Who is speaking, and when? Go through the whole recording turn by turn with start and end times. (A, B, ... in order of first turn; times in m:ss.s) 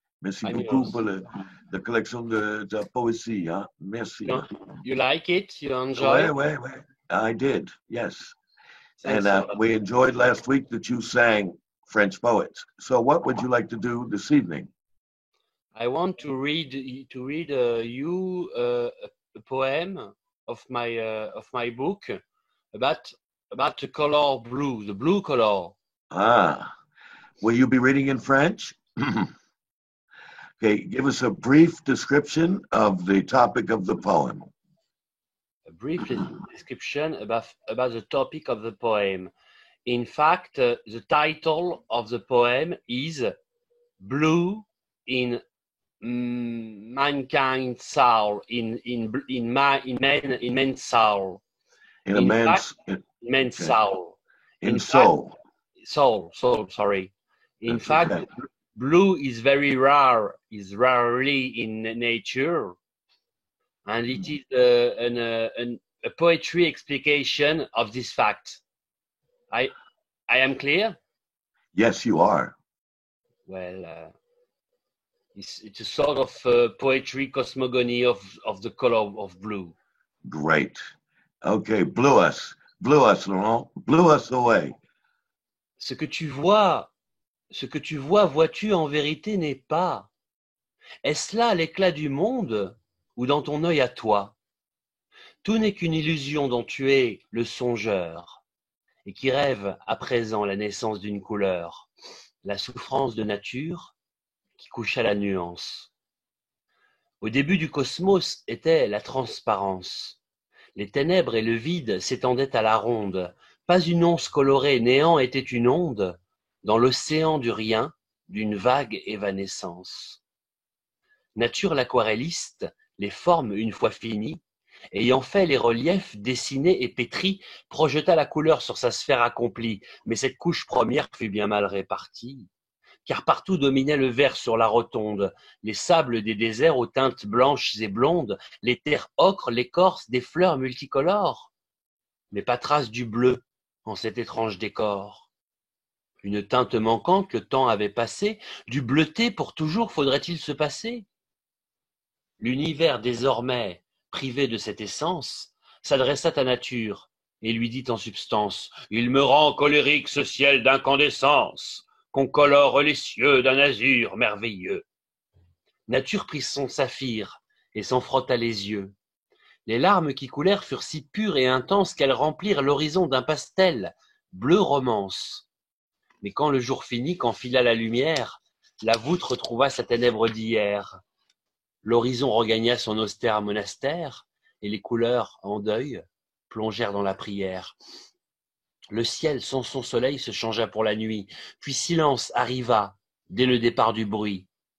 0:00.2-0:04.5 A
0:00.4-0:01.0 B
0:04.2-0:06.3 B
0:06.0-0:08.4 A
0:09.0-0:09.6 B
0:09.0-0:14.7 A
0:15.8-0:22.2 B
0:22.7-0:25.8 B
0:26.1-0:26.7 A
0:27.4-0:29.3 A
0:30.6-0:34.5 A
0:35.7-0:39.3 B
0:39.9-0:43.4 B
0:44.0-0:45.4 B
0:46.0-0:51.4 B
0:52.1-0:53.8 A
0:52.1-0:52.7 B
0:53.2-0:55.1 B
0:54.6-0:55.3 A
0:55.8-1:02.8 B
0:57.7-0:58.3 A
1:03.8-1:08.6 B
1:10.3-1:11.0 B
1:11.8-1:12.6 A
1:13.5-1:14.1 B
1:15.4-1:19.7 B
1:20.2-1:20.9 A
1:21.4-1:24.8 A
1:25.8-1:26.9 B
1:27.5-1:30.1 B
1:31.0-1:34.4 B
1:35.4-1:38.4 B
1:39.0-1:41.9 B
1:42.4-1:43.9 B
1:44.6-1:45.9 B
1:47.2-1:50.2 B
1:50.8-2:00.2 B
2:01.4-2:04.4 B
2:04.9-2:12.5 B
2:13.0-2:21.5 B
2:22.3-2:25.3 B
2:26.2-2:31.0 B
2:32.4-2:44.8 B
2:45.9-2:48.9 B
2:49.7-2:55.5 B
2:56.2-3:01.0 B
3:01.8-3:07.8 B
3:08.9-3:14.5 B